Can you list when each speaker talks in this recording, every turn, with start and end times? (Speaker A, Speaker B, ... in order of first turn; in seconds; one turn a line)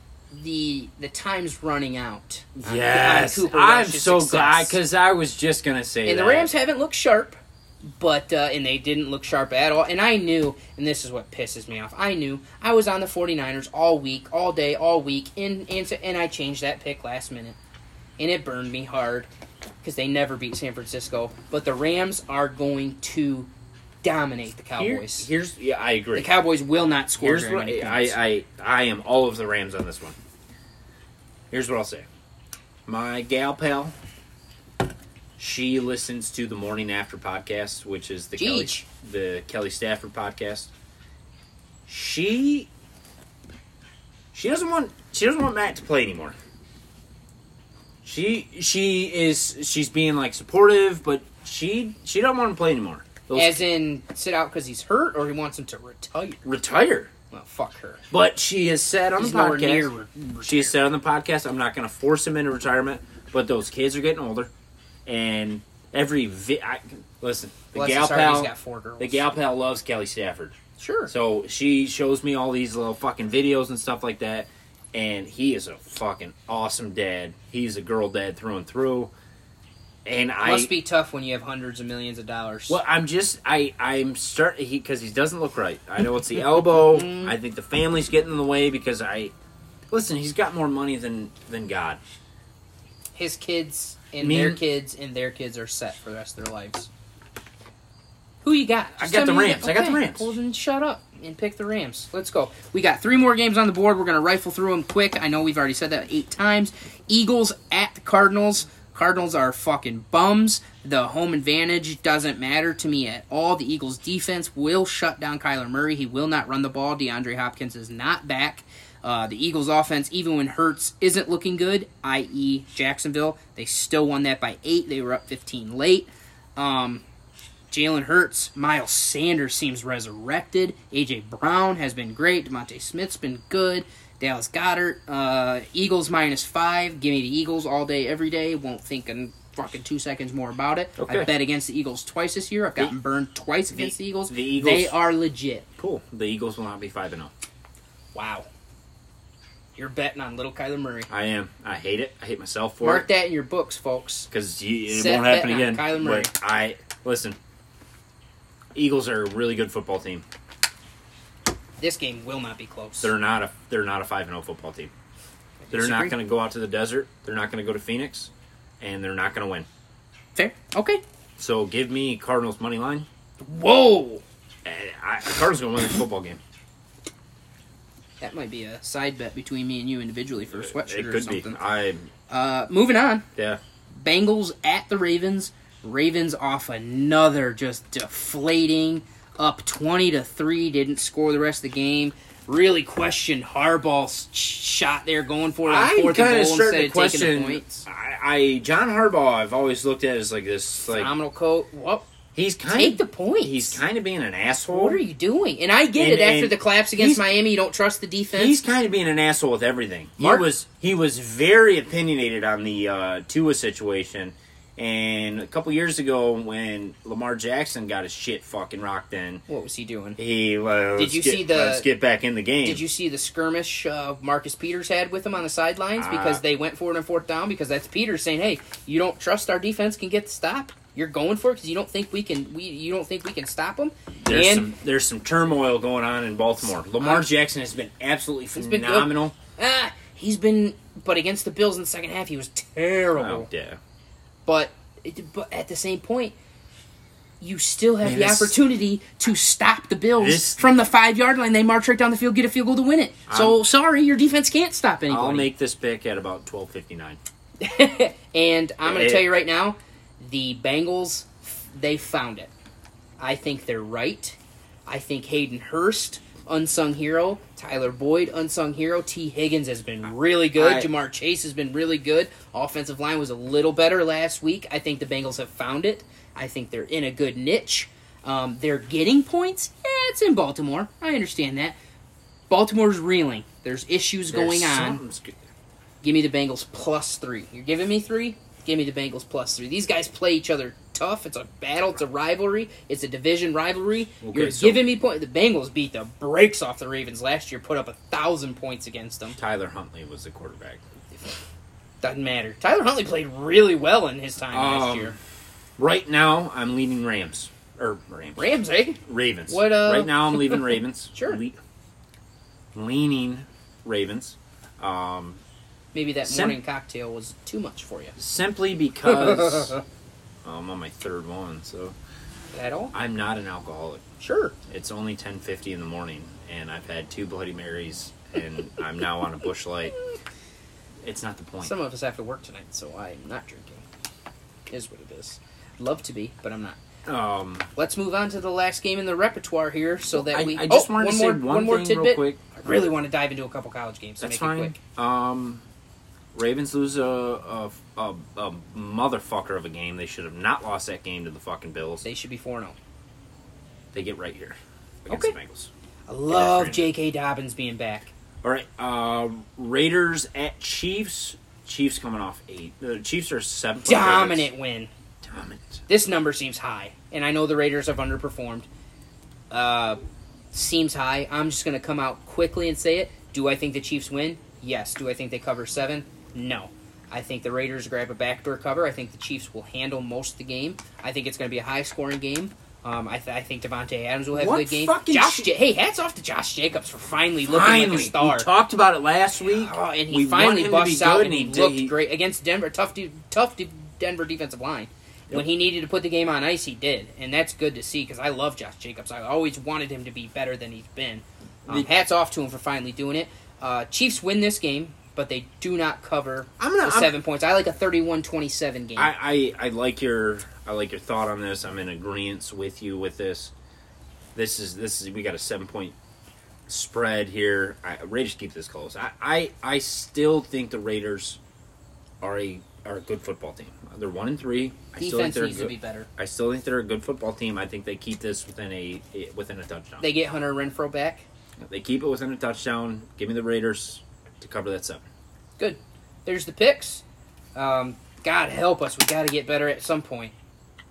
Speaker A: 0.3-4.8
Speaker B: 2.5-6.5
Speaker A: 6.0-17.6
Speaker A: 18.2-19.3
Speaker A: 19.8-23.5
Speaker A: 24.0-25.3
Speaker B: 24.8-26.3
Speaker A: 26.1-28.2
Speaker B: 27.2-30.1
Speaker B: 31.5-32.1
Speaker B: 32.9-33.9
Speaker B: 35.4-40.7
Speaker A: 38.4-38.9
Speaker B: 41.9-42.7
Speaker B: 44.3-46.4
Speaker B: 48.0-53.6
Speaker A: 53.3-56.4
Speaker B: 56.4-57.1
Speaker A: 57.3-58.0
Speaker B: 58.1-64.5
Speaker A: 59.2-60.7
Speaker B: 65.0-70.5
Speaker A: 67.7-69.3
Speaker A: 70.8-71.1
Speaker B: 71.1-79.1
Speaker B: 80.0-80.7
Speaker A: 80.4-82.8
Speaker B: 82.7-89.3
Speaker A: 86.8-87.3
Speaker B: 89.9-92.0
Speaker A: 93.1-96.9
Speaker B: 94.2-94.6
Speaker A: 98.4-127.0
Speaker B: 99.0-100.3
Speaker A: 127.7-145.7
Speaker B: 141.0-141.3
Speaker B: 143.7-144.9
Speaker B: 145.8-147.3
Speaker A: 148.1-148.5
Speaker A: 149.8-151.1
Speaker B: 151.1-153.1
Speaker A: 152.8-154.3
Speaker B: 154.3-157.4
Speaker A: 154.9-156.3
Speaker B: 158.7-160.2
Speaker A: 161.8-163.1
Speaker B: 163.0-164.9
Speaker A: 165.6-166.2
Speaker B: 165.7-169.7
Speaker A: 170.3-171.0
Speaker B: 171.4-173.1
Speaker A: 173.4-174.2
Speaker B: 174.6-176.4
Speaker A: 178.2-181.6
Speaker B: 180.6-182.1
Speaker A: 182.3-183.2
Speaker A: 183.9-197.8
Speaker B: 195.7-201.1
Speaker A: 200.9-202.1
Speaker B: 202.3-205.0
Speaker A: 202.7-203.8
Speaker A: 204.7-208.6
Speaker B: 205.9-207.3
Speaker B: 208.3-219.4
Speaker A: 210.2-210.4
Speaker A: 219.5-220.2
Speaker B: 220.2-222.8
Speaker A: 221.0-221.9
Speaker A: 222.6-234.7
Speaker B: 226.0-226.4
Speaker B: 234.2-239.3
Speaker A: 236.9-237.3
Speaker A: 238.6-243.5
Speaker B: 243.1-243.8
Speaker A: 244.4-246.3
Speaker A: 247.4-255.5
Speaker B: 248.0-248.6
Speaker B: 250.2-250.7
Speaker B: 253.3-253.6
Speaker B: 255.1-257.2
Speaker A: 257.6-262.5
Speaker B: 258.8-259.3
Speaker A: 263.2-281.8
Speaker B: 270.6-270.9
Speaker A: 282.5-285.0
Speaker B: 284.3-285.4
Speaker A: 286.0-299.4
Speaker B: 294.2-294.8
Speaker B: 299.4-300.8
Speaker A: 302.0-305.1
Speaker B: 304.5-305.2
Speaker B: 305.8-308.5
Speaker A: 308.4-311.4
Speaker B: 309.0-311.6
Speaker B: 312.7-315.4
Speaker A: 315.9-318.1
Speaker B: 316.2-316.6
Speaker B: 318.2-319.8
Speaker A: 319.0-319.8
Speaker B: 320.4-321.9
Speaker A: 322.5-322.9
Speaker B: 322.9-324.0
Speaker A: 324.2-324.5
Speaker B: 324.7-330.0
Speaker B: 331.0-331.7
Speaker A: 331.6-333.8
Speaker A: 334.7-336.8
Speaker B: 337.1-337.7
Speaker A: 337.8-344.8
Speaker B: 340.1-342.6
Speaker B: 344.2-345.6
Speaker B: 346.3-352.1
Speaker A: 352.0-352.8
Speaker B: 353.9-355.7
Speaker A: 355.1-355.3
Speaker A: 356.1-358.1
Speaker B: 356.3-356.9
Speaker B: 358.4-364.5
Speaker A: 363.8-364.9
Speaker B: 365.2-365.8
Speaker A: 365.9-368.7
Speaker A: 369.5-370.0
Speaker A: 370.5-388.5
Speaker B: 384.3-385.5
Speaker B: 387.4-391.9
Speaker A: 389.5-409.1
Speaker B: 406.6-407.1
Speaker B: 408.9-413.5
Speaker B: 414.3-415.9
Speaker B: 416.7-421.4
Speaker B: 422.2-430.0
Speaker A: 425.0-426.1
Speaker A: 430.0-431.2
Speaker B: 431.6-435.0
Speaker A: 435.6-437.0
Speaker A: 437.5-440.3